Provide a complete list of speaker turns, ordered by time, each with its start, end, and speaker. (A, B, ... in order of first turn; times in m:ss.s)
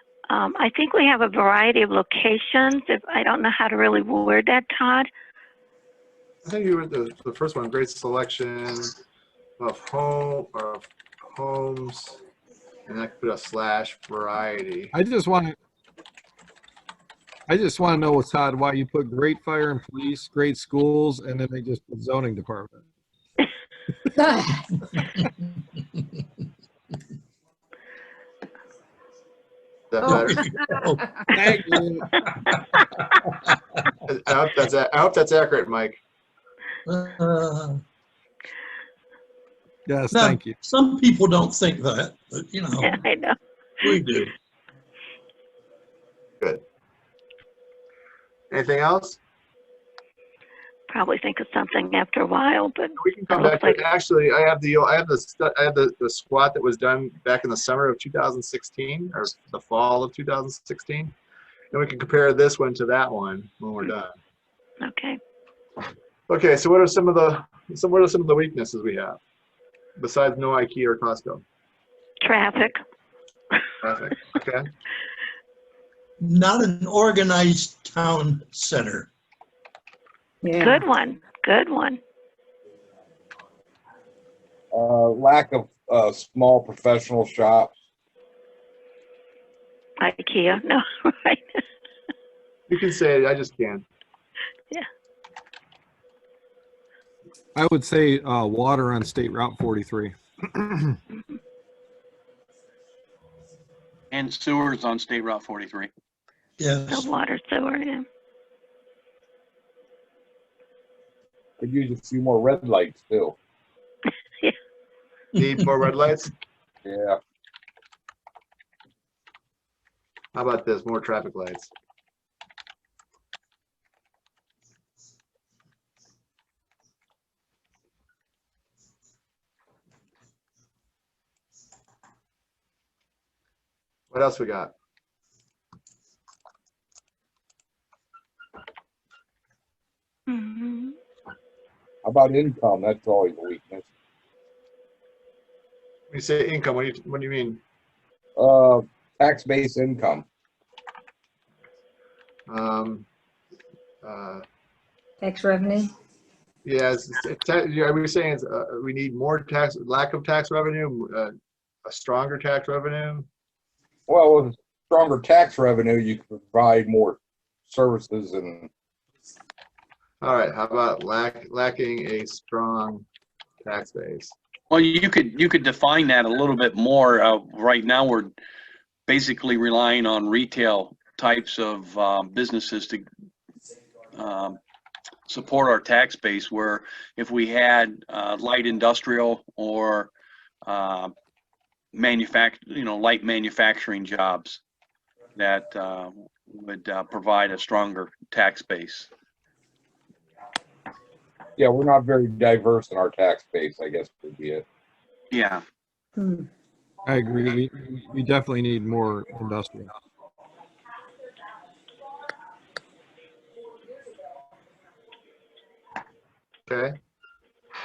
0:00.3-0:05.1 A
0:06.4-0:08.9 B
0:09.6-0:12.2 B
0:12.9-0:14.9 B
0:14.9-0:15.6 C
0:17.5-0:22.8 C
0:24.1-0:24.6 D
0:29.9-0:30.4 B
0:30.0-0:32.8 E
0:31.3-0:32.2 C
0:34.1-0:36.0 B
0:36.8-0:37.8 E
0:39.9-0:40.6 C
0:40.1-0:43.0 E
0:42.8-0:43.4 A
0:43.8-0:44.3 E
0:48.5-0:49.2 B
0:50.9-0:53.8 A
0:53.0-1:01.1 B
1:01.7-1:04.1 B
1:04.8-1:05.2 A
1:06.3-1:09.2 B
1:10.0-1:11.4 B
1:12.2-1:12.8 A
1:13.8-1:14.6 B
1:16.2-1:19.1 E
1:20.4-1:20.8 D
1:20.6-1:22.0 A
1:24.7-1:27.7 F
1:30.0-1:31.6 A
1:32.7-1:33.8 B
1:37.6-1:41.0 C
1:44.1-1:45.9 G
1:46.6-1:47.1 E
1:46.9-1:48.0 A
1:51.6-1:53.4 F
1:55.4-1:56.3 B
1:56.8-1:57.2 F
2:00.3-2:01.7 B
2:14.1-2:14.7 B
2:20.3-2:20.9 A
2:22.0-2:23.8 F
2:26.1-2:27.6 B
2:28.4-2:30.2 F
2:32.5-2:33.0 B
2:34.0-2:34.4 B
2:35.2-2:35.9 D
2:36.6-2:41.3 B
2:41.8-2:43.3 B
2:44.1-2:48.7 F
2:50.2-2:53.0 B
2:53.6-2:54.3 B
2:54.7-2:58.3 G
2:59.1-3:03.0 G
3:04.1-3:04.6 G
3:05.3-3:10.1 G
3:10.6-3:11.1 G
3:11.9-3:14.6 G
3:15.4-3:19.1 G
3:21.6-3:24.6 F
3:25.3-3:25.6 G
3:26.2-3:26.5 D
3:27.0-3:29.9 C
3:36.7-3:36.9 B